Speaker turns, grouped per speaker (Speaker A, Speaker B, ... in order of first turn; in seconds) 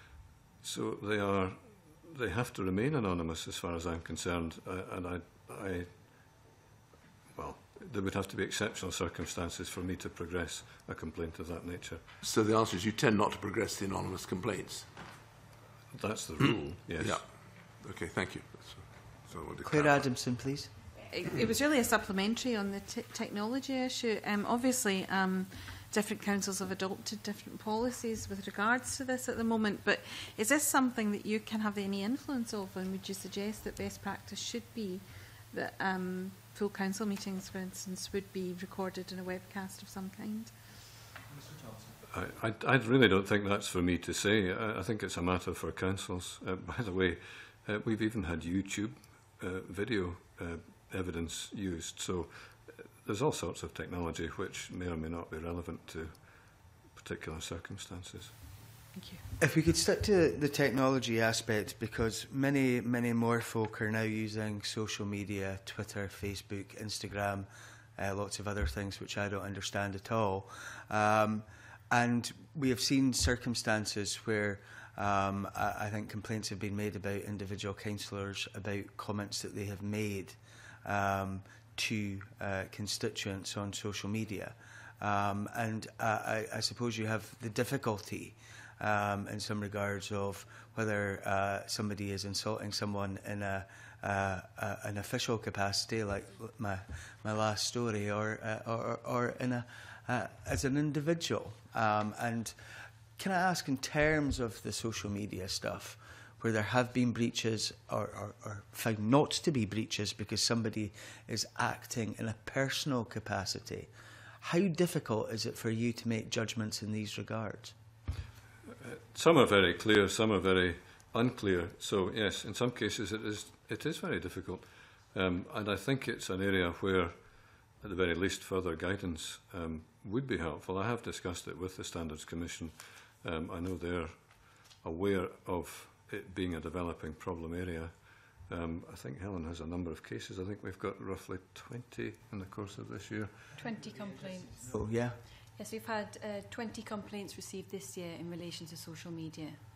Speaker A: 0.6-6.1, 7.3-12.0, 15.9-17.2, 42.1-58.3, 118.8-143.3
Speaker B: 12.2-14.9, 16.4-20.1
Speaker C: 19.6-20.7, 59.4-117.7, 144.7-145.2
Speaker D: 21.0-40.5, 58.9-59.2
Speaker E: 143.5-144.7, 145.5-149.6